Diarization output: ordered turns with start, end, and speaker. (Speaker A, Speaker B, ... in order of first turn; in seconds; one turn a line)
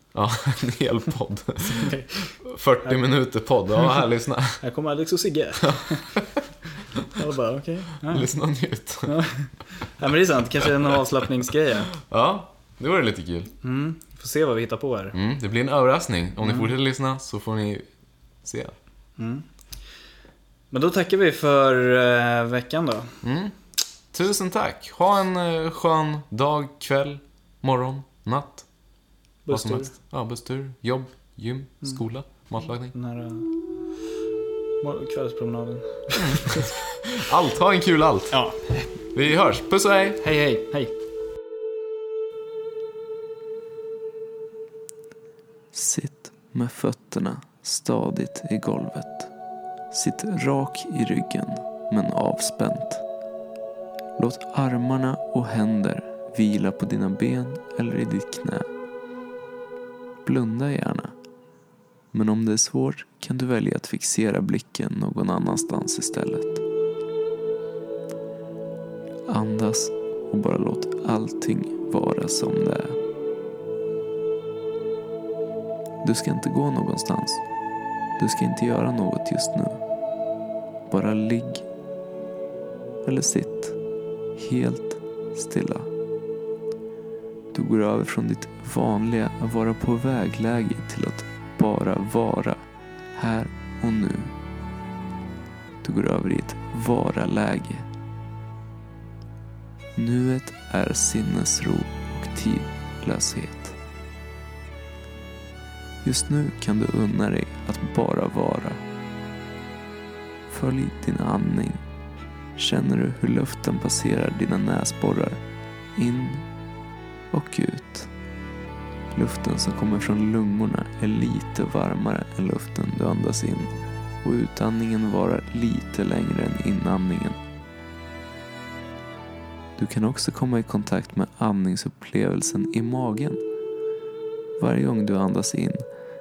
Speaker A: 0.1-4.6
Speaker B: 1.6-2.2
Speaker B: 4.6-6.1
Speaker A: 5.6-6.4
Speaker B: 7.0-8.3
Speaker A: 8.0-9.2
Speaker B: 9.1-11.9
Speaker A: 12.0-13.5
Speaker B: 13.6-15.2
Speaker A: 15.1-17.9
Speaker B: 16.4-16.7
Speaker A: 18.4-18.8
Speaker B: 19.2-19.4
Speaker B: 20.7-23.2
Speaker A: 23.2-23.6
Speaker A: 24.1-28.6
Speaker B: 29.4-29.9
Speaker A: 29.5-32.9
Speaker B: 32.9-33.5
Speaker B: 34.8-36.7
Speaker A: 36.1-38.4
Speaker B: 38.3-38.9
Speaker A: 39.1-40.2
Speaker B: 40.2-40.9
Speaker C: 45.7-49.3
Speaker C: 49.9-53.0
Speaker C: 54.2-58.7
Speaker C: 60.2-61.1
Speaker C: 62.1-66.6
Speaker C: 69.3-73.0
Speaker C: 76.0-77.4
Speaker C: 78.2-79.8
Speaker C: 80.9-81.6
Speaker C: 83.0-83.8
Speaker C: 84.3-85.9
Speaker C: 87.5-92.6
Speaker C: 93.1-94.3
Speaker C: 95.8-97.9
Speaker C: 99.9-103.8
Speaker C: 106.0-108.8
Speaker C: 110.5-111.8
Speaker C: 112.5-115.4
Speaker C: 116.0-116.4
Speaker C: 117.3-118.1
Speaker C: 119.1-127.4
Speaker C: 129.8-133.4
Speaker C: 134.6-135.8